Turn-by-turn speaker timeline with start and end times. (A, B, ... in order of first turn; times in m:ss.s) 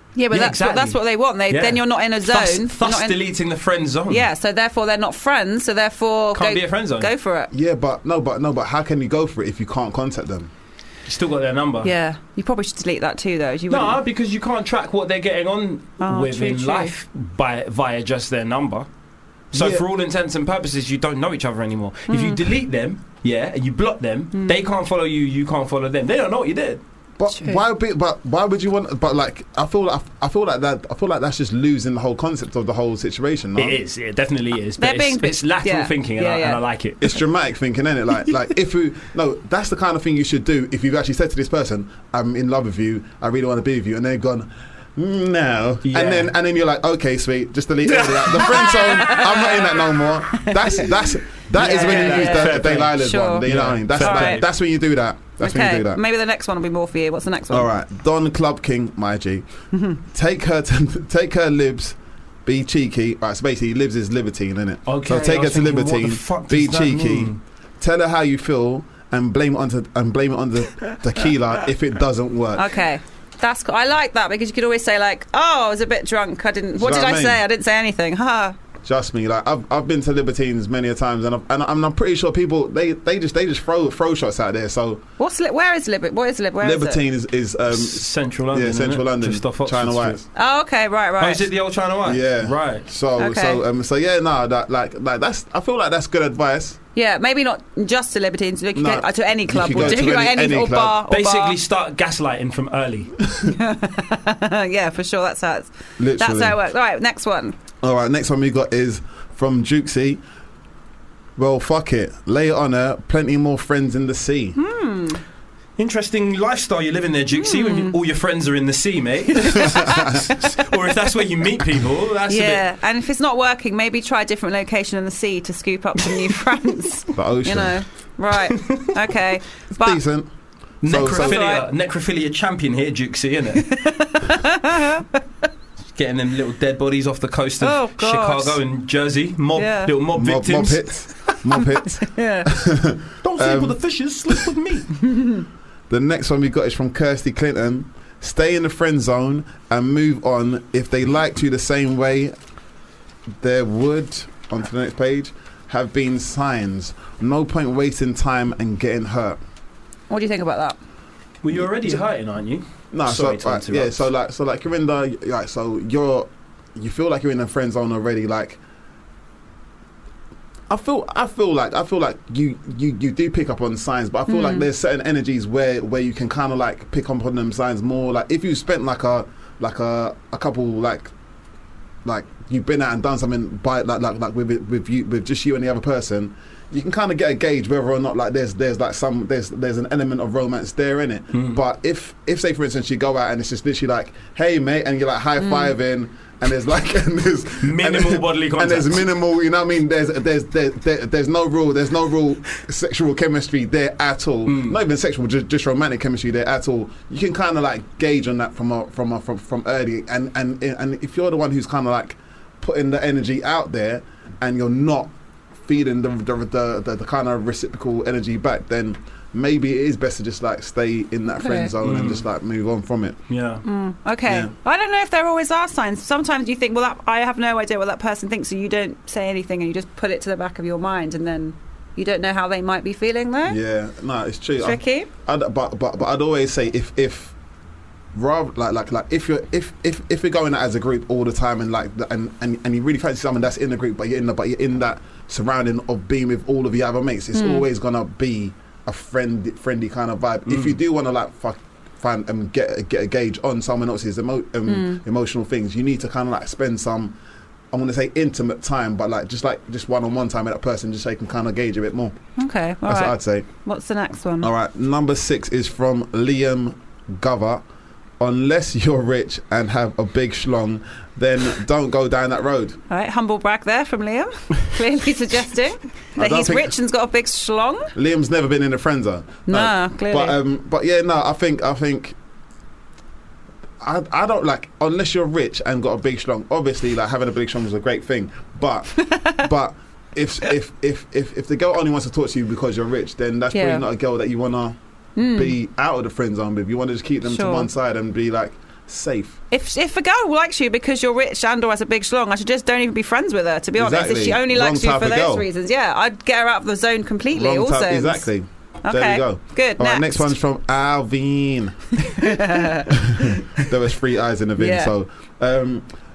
0:00.2-0:03.2 A
0:00.3-0:04.3 B
0:04.1-0:07.5 A
0:06.3-0:07.1 B
0:07.5-0:10.5 C
0:11.1-0:11.9 B
0:11.8-0:14.0 A
0:13.7-0:18.9 B
0:16.0-0:17.0 A
0:19.5-0:26.8 B
0:19.5-0:19.8 C
0:22.1-0:22.4 A
0:27.2-0:33.8 C
0:27.3-0:27.6 A
0:33.6-0:37.2 B
0:34.8-0:36.6 A
0:37.0-0:56.0 C
0:45.8-0:46.3 B
0:47.9-0:48.9 B
0:48.5-0:49.7 A
0:50.3-0:50.9 A
0:51.6-0:54.5 B
0:51.6-0:54.4 A
0:55.4-0:57.7 A
0:57.5-0:59.5 C
0:59.7-1:00.0 A
1:00.1-1:12.8 C
1:04.9-1:07.4 B
1:12.6-1:18.6 A
1:16.8-1:17.4 C
1:18.8-1:25.0 C
1:25.2-1:27.0 A
1:26.6-1:30.2 C
1:27.7-1:30.3 B
1:30.4-1:31.5 A
1:31.2-1:32.9 B
1:32.0-1:36.8 C
1:33.2-1:33.6 A
1:37.0-1:41.6 A
1:38.8-1:41.0 C
1:39.7-1:40.1 B
1:41.1-1:43.2 B
1:43.5-1:47.6 A
1:46.0-1:46.6 C
1:47.8-1:50.2 C
1:51.4-1:54.6 C
1:54.6-1:55.2 A
1:55.8-2:02.6 B
1:57.4-1:58.0 A
2:02.3-2:10.0 A
2:07.1-2:07.8 C
2:09.7-2:10.3 C
2:10.8-2:11.4 C
2:10.8-2:13.7 B
2:11.1-2:11.6 A
2:13.7-2:15.1 A
2:16.0-2:21.1 B
2:17.6-2:18.6 A
2:19.6-2:19.9 A
2:20.1-2:24.4 C
2:22.0-2:22.5 A
2:23.2-2:24.9 B
2:25.1-2:25.4 A
2:25.9-2:32.4 C
2:33.4-2:39.4 C
2:40.1-2:40.8 A
2:41.4-2:44.0 B
2:42.9-2:48.6 C
2:50.7-3:01.1 C
2:54.3-2:54.6 A
3:02.0-3:35.1 C
3:11.3-3:11.6 B
3:15.4-3:15.7 A
3:17.6-3:19.0 B
3:24.5-3:24.8 B
3:35.6-3:43.2 C
3:41.4-3:41.7 A
3:41.8-3:42.3 B
3:43.3-3:43.6 B
3:43.6-3:53.6 A
3:44.3-3:44.5 C
3:53.4-3:57.4 C
3:54.6-3:55.1 A
3:58.1-4:17.2 C
4:07.3-4:07.7 A
4:10.5-4:10.8 B
4:14.7-4:15.0 A
4:17.7-4:22.2 C
4:22.4-4:24.5 A
4:22.8-4:23.5 C
4:24.4-4:27.6 C
4:28.2-4:32.8 C
4:32.9-4:37.9 A
4:36.2-4:36.8 C
4:38.0-4:42.2 C
4:39.5-4:40.4 A
4:43.8-4:59.4 C
4:49.0-4:49.4 A
4:53.5-4:53.8 A
4:55.2-4:55.6 A
4:57.3-4:57.7 A
4:59.5-5:08.3 A
5:03.8-5:05.5 C
5:07.3-5:15.9 C
5:08.8-5:10.4 A
5:12.0-5:12.9 A
5:14.6-5:14.9 A